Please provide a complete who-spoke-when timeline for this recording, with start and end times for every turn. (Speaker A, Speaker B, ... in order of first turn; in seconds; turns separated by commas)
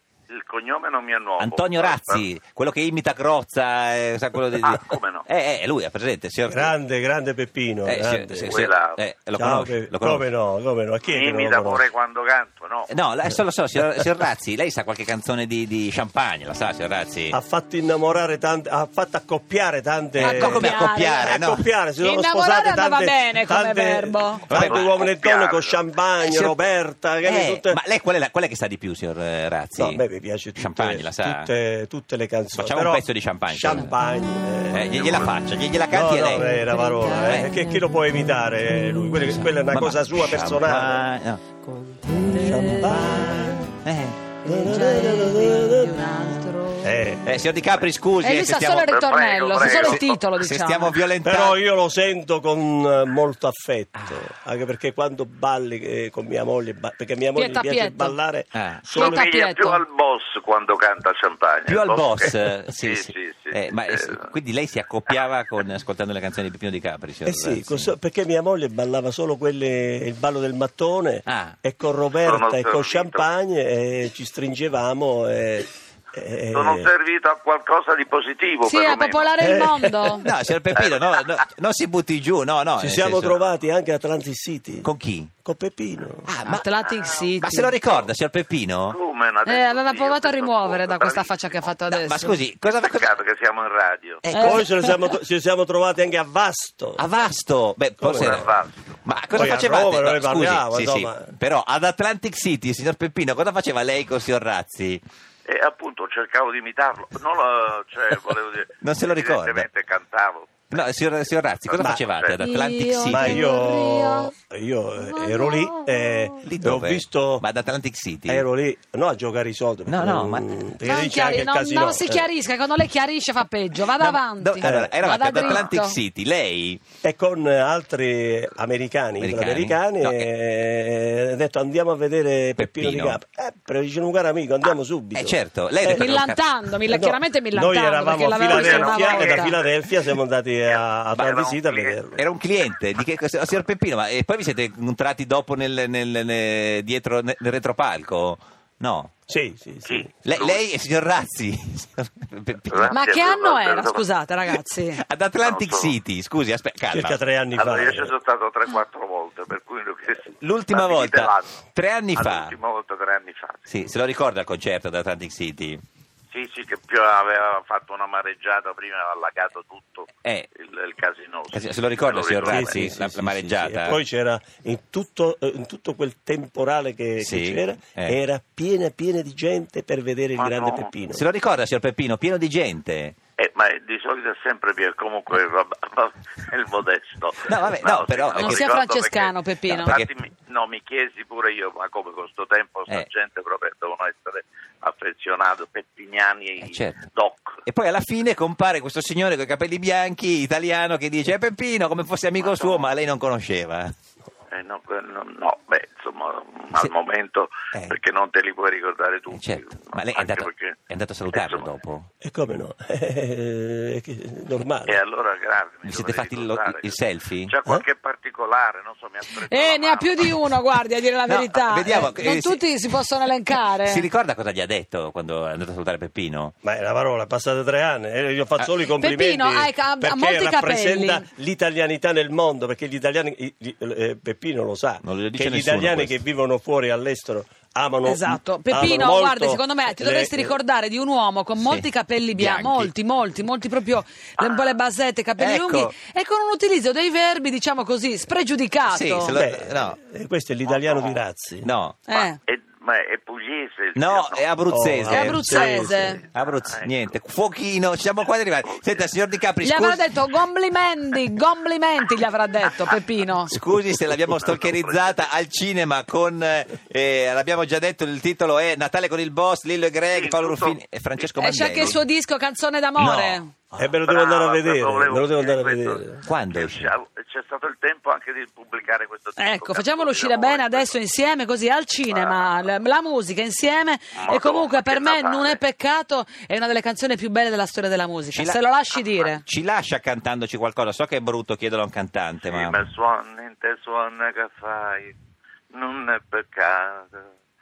Speaker A: 0.3-2.2, Speaker B: 1.4-6.7, Speaker A: 4.6-5.3, Speaker C: 6.5-8.6, Speaker B: 7.8-10.2, Speaker A: 8.5-9.0, Speaker C: 9.3-11.8, Speaker A: 11.0-12.9, Speaker B: 12.9-17.4, Speaker C: 17.3-27.8, Speaker D: 20.2-21.4, Speaker B: 20.2-21.6, Speaker D: 22.0-24.6, Speaker B: 24.5-24.9, Speaker A: 24.6-25.9, Speaker B: 26.2-26.7, Speaker B: 27.2-30.0, Speaker C: 29.8-41.0, Speaker B: 30.5-31.5, Speaker B: 32.5-34.0, Speaker B: 34.7-37.5, Speaker B: 39.2-41.4, Speaker D: 42.2-43.4, Speaker C: 42.3-43.7, Speaker B: 43.8-44.3, Speaker C: 44.4-46.0, Speaker D: 44.4-47.1, Speaker C: 46.8-47.2, Speaker B: 47.2-48.9, Speaker D: 48.2-51.0, Speaker A: 48.8-50.2, Speaker B: 49.7-51.6, Speaker C: 51.2-59.3, Speaker B: 53.9-54.3, Speaker D: 57.3-58.2, Speaker B: 58.5-58.9, Speaker D: 58.9-59.8, Speaker A: 58.9-64.3, Speaker B: 61.7-67.9, Speaker C: 67.2-76.9, Speaker B: 71.3-71.6, Speaker A: 72.2-73.3, Speaker A: 76.5-79.3, Speaker D: 78.7-80.2, Speaker C: 79.4-80.2, Speaker B: 80.2-83.4, Speaker A: 80.8-81.4, Speaker C: 82.8-84.9, Speaker B: 84.8-85.3, Speaker C: 85.4-86.3, Speaker B: 86.2-86.7, Speaker D: 86.4-87.8, Speaker A: 86.8-87.2, Speaker B: 87.4-89.0, Speaker A: 88.9-91.9, Speaker D: 89.4-92.4, Speaker B: 91.9-93.1, Speaker A: 92.6-94.2, Speaker B: 94.2-94.8, Speaker D: 94.3-94.8, Speaker C: 94.3-97.0, Speaker B: 97.0-98.5, Speaker C: 98.0-98.5, Speaker A: 98.2-99.0, Speaker B: 99.0-105.0, Speaker C: 99.3-101.3, Speaker A: 105.4-110.8, Speaker B: 108.8-109.7, Speaker B: 110.7-113.5, Speaker A: 111.7-112.5, Speaker C: 111.8-112.0, Speaker D: 112.3-114.3, Speaker C: 113.0-117.4, Speaker D: 115.0-116.4, Speaker B: 116.4-118.4, Speaker C: 118.3-122.3, Speaker B: 119.9-120.5, Speaker D: 120.8-126.0, Speaker B: 124.0-126.8, Speaker C: 124.6-125.5, Speaker C: 127.0-136.1, Speaker B: 129.2-130.3, Speaker B: 132.6-133.2, Speaker B: 135.1-136.4, Speaker D: 135.9-139.6, Speaker C: 136.8-142.2, Speaker A: 138.4-139.7, Speaker A: 140.7-142.2, Speaker B: 142.2-149.1, Speaker C: 149.3-150.1, Speaker A: 149.8-150.6, Speaker B: 150.2-152.9, Speaker A: 152.7-154.1, Speaker D: 152.9-155.0, Speaker B: 154.9-157.2, Speaker A: 155.4-156.0, Speaker C: 156.9-158.1, Speaker A: 157.5-163.7, Speaker B: 160.4-162.5, Speaker B: 163.7-165.8, Speaker A: 166.3-172.9, Speaker B: 170.2-170.5, Speaker B: 171.5-174.0, Speaker C: 172.5-181.2, Speaker B: 177.2-178.2, Speaker A: 180.4-181.0, Speaker B: 181.1-183.2, Speaker A: 183.4-197.6, Speaker B: 187.4-188.7, Speaker D: 188.4-190.0, Speaker B: 189.7-190.1, Speaker B: 196.6-197.1, Speaker B: 197.6-203.9, Speaker A: 202.4-202.9, Speaker A: 204.5-211.8, Speaker B: 209.3-212.1, Speaker C: 212.2-215.0, Speaker A: 214.8-220.3, Speaker B: 215.8-217.5, Speaker D: 219.4-224.1, Speaker B: 221.2-222.6, Speaker B: 223.8-226.5, Speaker C: 226.6-240.6, Speaker D: 228.9-231.2, Speaker B: 235.0-236.2, Speaker D: 238.0-249.3, Speaker B: 241.6-242.9, Speaker A: 244.4-244.7, Speaker B: 245.4-245.9, Speaker B: 248.9-250.0, Speaker C: 249.3-251.7, Speaker A: 250.7-251.2, Speaker B: 251.6-252.0, Speaker D: 252.1-252.4, Speaker A: 252.1-254.5, Speaker B: 253.9-255.6, Speaker C: 254.7-256.2, Speaker D: 255.1-256.2, Speaker A: 255.6-257.1, Speaker B: 256.3-260.1, Speaker A: 258.6-259.1, Speaker D: 259.6-263.6, Speaker B: 263.5-272.0, Speaker A: 263.5-265.3, Speaker A: 270.1-270.8, Speaker D: 271.4-273.5, Speaker B: 273.0-273.4, Speaker C: 273.7-276.2, Speaker A: 274.0-281.0, Speaker B: 276.2-276.9, Speaker D: 279.4-289.4, Speaker A: 282.1-282.7, Speaker A: 284.1-285.6, Speaker B: 288.3-288.6, Speaker A: 288.9-289.3, Speaker B: 289.4-292.8, Speaker A: 292.4-295.1, Speaker A: 295.7-297.3